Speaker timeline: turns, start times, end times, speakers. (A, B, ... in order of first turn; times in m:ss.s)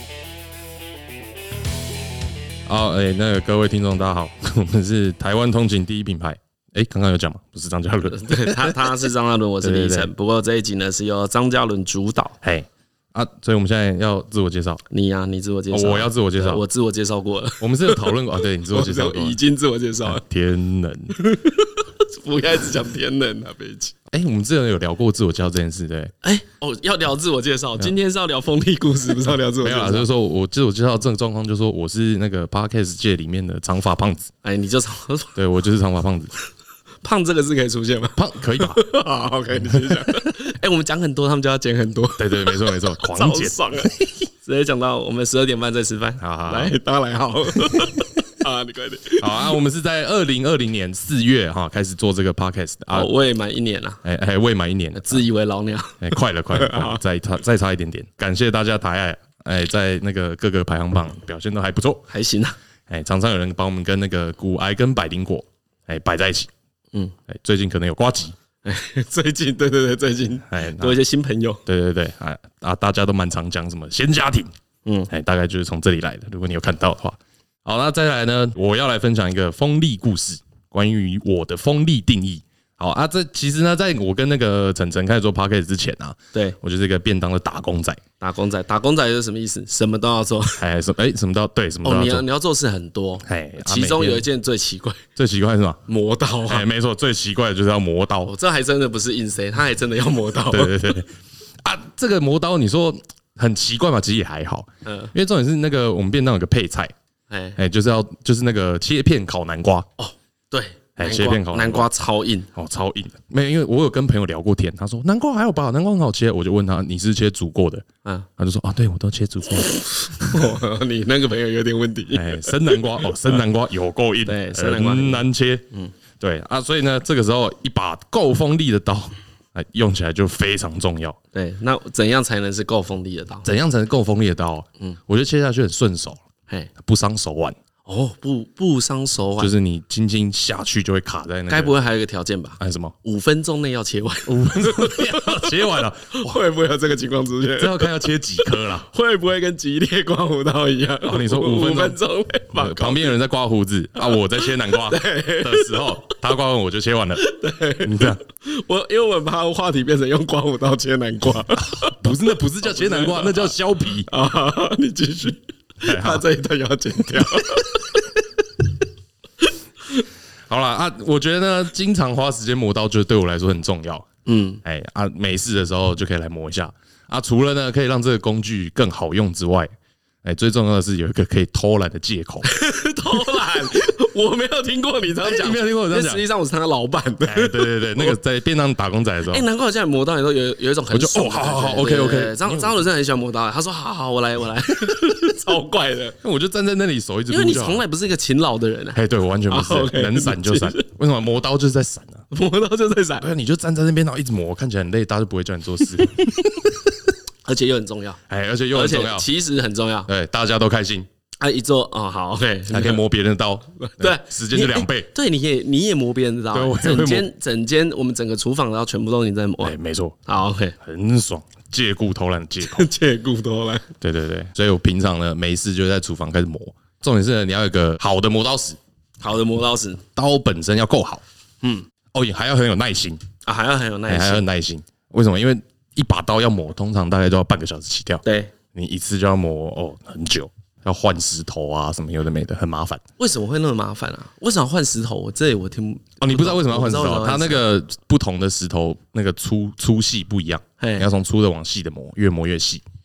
0:02.7-0:08.8 A
0:08.1-0:12.4 B
0:09.6-0:10.1 A
0:12.4-0:14.8 A
0:14.9-0:20.2 B
0:15.7-0:16.6 A
0:17.6-0:19.4 A
0:20.0-0:21.2 A
0:21.1-0:24.0 B
0:24.1-0:26.1 A
0:26.2-0:30.1 B
0:29.6-0:34.3 A
0:34.4-0:35.4 B
0:35.4-0:36.3 A
0:37.0-0:49.5 B
0:38.1-0:38.8 A
0:42.2-0:43.6 A
0:46.2-0:46.7 A
0:49.2-0:53.1 A
0:52.9-0:54.0 B
0:54.0-0:55.2 A
0:54.9-0:57.0 B
0:56.0-1:02.1 A
1:02.1-1:02.5 B
1:02.9-1:06.5 A
1:07.3-1:08.4 A
1:08.6-1:11.6 B
1:10.5-1:11.0 A
1:11.6-1:14.5 A
1:14.8-1:15.1 B
1:15.1-1:28.0 A
1:28.2-1:30.6 B
1:30.6-1:32.2 A
1:31.8-1:35.0 B
1:33.2-1:34.2 A
1:35.2-1:35.8 A
1:35.9-1:36.6 B
1:36.5-1:38.3 A
1:38.3-1:40.8 B
1:40.5-1:41.1 A
1:41.6-1:46.9 A
1:44.8-1:45.1 B
1:47.3-1:47.6 B
1:47.6-1:49.8 A
1:50.0-1:52.5 B
1:51.0-1:51.9 A
1:52.5-1:57.8 A
1:58.4-2:00.5 A
1:59.6-2:03.4 B
2:02.1-2:05.6 A
2:04.2-2:05.9 B
2:06.2-2:11.2 A
2:11.3-2:13.5 B
2:13.4-2:16.2 A
2:16.8-2:17.6 A
2:17.8-2:19.5 B
2:19.4-2:21.8 A
2:21.5-2:33.2 B
2:22.6-2:22.9 A
2:24.2-2:26.4 A
2:27.6-2:28.9 A
2:31.0-2:32.0 A
2:32.6-2:37.3 A
2:34.0-2:36.1 B
2:37.2-2:43.5 B
2:37.8-2:38.2 A
2:41.6-2:44.1 A
2:44.1-2:48.7 B
2:45.8-2:46.2 A
2:50.5-2:54.0 A
2:54.2-2:54.6 B
2:54.6-2:59.7 A
3:00.2-3:02.5 A
3:02.4-3:08.2 B
3:05.2-3:06.2 A
3:07.2-3:09.4 A
3:09.3-3:16.2 B
3:10.9-3:12.8 A
3:16.2-3:17.8 A
3:17.3-3:20.8 B
3:18.9-3:22.2 A
3:22.3-3:23.3 B
3:23.2-3:26.6 A
3:27.4-3:28.2 B
3:28.3-3:29.3 A
3:28.7-3:30.1 B
3:30.1-3:31.1 A
3:31.4-3:33.0 B
3:32.7-3:35.1 A
3:33.8-3:40.8 B
3:36.5-3:37.3 A
3:39.6-3:40.2 A
3:40.8-3:42.9 A
3:42.6-3:43.9 B
3:44.0-3:48.8 A
3:49.2-3:50.0 B
3:50.1-3:51.2 A
3:51.6-3:51.9 B
3:52.1-3:53.2 A
3:53.4-3:54.4 B
3:54.1-3:58.2 A
3:58.2-3:58.5 B
3:58.7-4:03.0 A
4:03.2-4:07.6 B
4:06.2-4:12.8 A
4:10.8-4:11.1 B